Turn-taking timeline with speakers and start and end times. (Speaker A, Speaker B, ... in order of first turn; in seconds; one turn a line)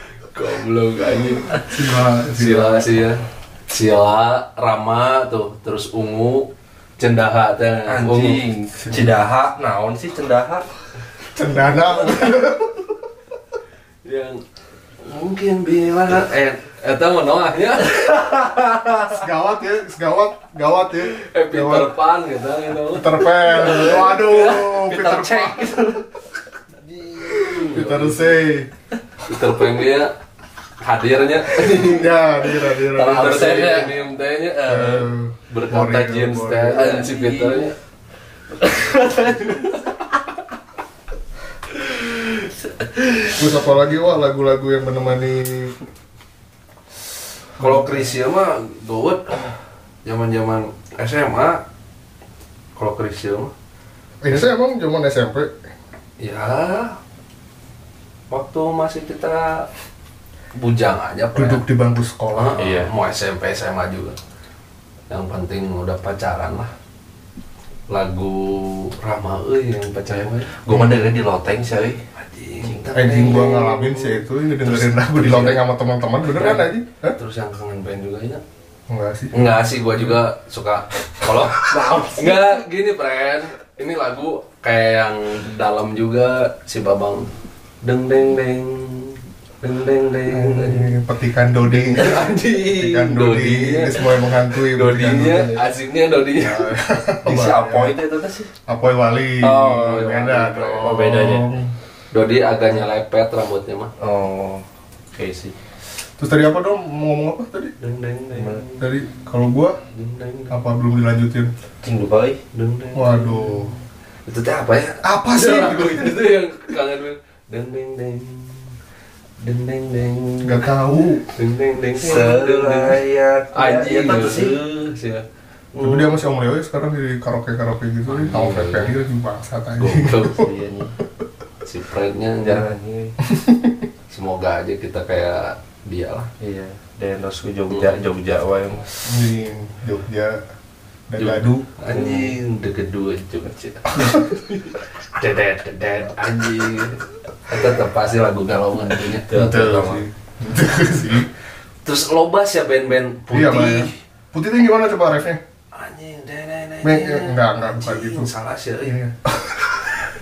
Speaker A: 0.3-8.4
Speaker B: 1.6-2.9
Speaker C: 7.9-10.7
Speaker B: 11.3-12.9
Speaker A: 14.0-14.4
Speaker A: 15.0-19.1
Speaker B: 19.1-21.9
Speaker A: 21.2-25.9
Speaker B: 22.9-26.0
Speaker A: 26.8-28.4
Speaker B: 27.4-28.7
Speaker A: 29.3-30.1
Speaker A: 30.8-32.2
Speaker B: 31.8-33.8
Speaker A: 32.8-37.7
Speaker C: 33.1-34.0
Speaker B: 34.7-36.9
Speaker C: 36.7-37.7
Speaker A: 38.6-39.8
Speaker B: 43.4-45.8
Speaker A: 47.6-49.5
Speaker B: 47.6-48.0
Speaker A: 50.0-51.6
Speaker A: 52.8-53.5
Speaker B: 54.2-55.5
Speaker A: 56.2-57.0
Speaker A: 58.3-59.7
Speaker A: 60.5-61.6
Speaker B: 61.4-62.6
Speaker A: 62.3-64.2
Speaker C: 62.6-62.9
Speaker A: 65.1-66.7
Speaker A: 67.9-70.5
Speaker C: 70.6-72.0
Speaker A: 72.1-75.6
Speaker B: 72.9-77.2
Speaker A: 76.3-78.4
Speaker B: 78.9-79.5
Speaker A: 79.3-87.3
Speaker C: 81.7-82.4
Speaker A: 87.8-90.9
Speaker B: 90.3-95.6
Speaker A: 91.7-96.7
Speaker B: 96.4-98.0
Speaker C: 97.2-98.5
Speaker B: 98.7-101.7
Speaker A: 99.4-101.0
Speaker C: 100.8-101.5
Speaker A: 102.1-103.9
Speaker C: 104.0-105.5
Speaker B: 106.2-107.7
Speaker A: 107.8-108.9
Speaker C: 108.3-108.6
Speaker B: 108.8-109.8
Speaker A: 109.9-110.6
Speaker B: 110.5-111.5
Speaker C: 111.8-112.4
Speaker A: 112.5-118.8
Speaker B: 113.0-113.7
Speaker B: 115.0-116.2
Speaker A: 119.4-120.7
Speaker B: 120.4-121.2
Speaker A: 121.2-123.0
Speaker C: 121.9-124.6
Speaker A: 123.5-125.2
Speaker C: 125.8-126.1
Speaker B: 125.8-130.5
Speaker A: 128.1-129.0
Speaker A: 129.8-130.5
Speaker C: 130.3-130.9
Speaker A: 131.6-132.7
Speaker C: 132.4-133.2
Speaker B: 133.3-133.8
Speaker A: 134.1-136.3
Speaker C: 136.4-138.9
Speaker A: 137.7-138.0
Speaker B: 139.1-140.4
Speaker B: 141.1-141.7
Speaker A: 141.2-149.3
Speaker C: 142.0-142.2
Speaker C: 149.3-150.0
Speaker B: 149.3-151.3
Speaker A: 151.8-153.9
Speaker B: 153.3-155.4
Speaker A: 155.7-159.0
Speaker B: 156.8-158.3
Speaker B: 158.8-159.6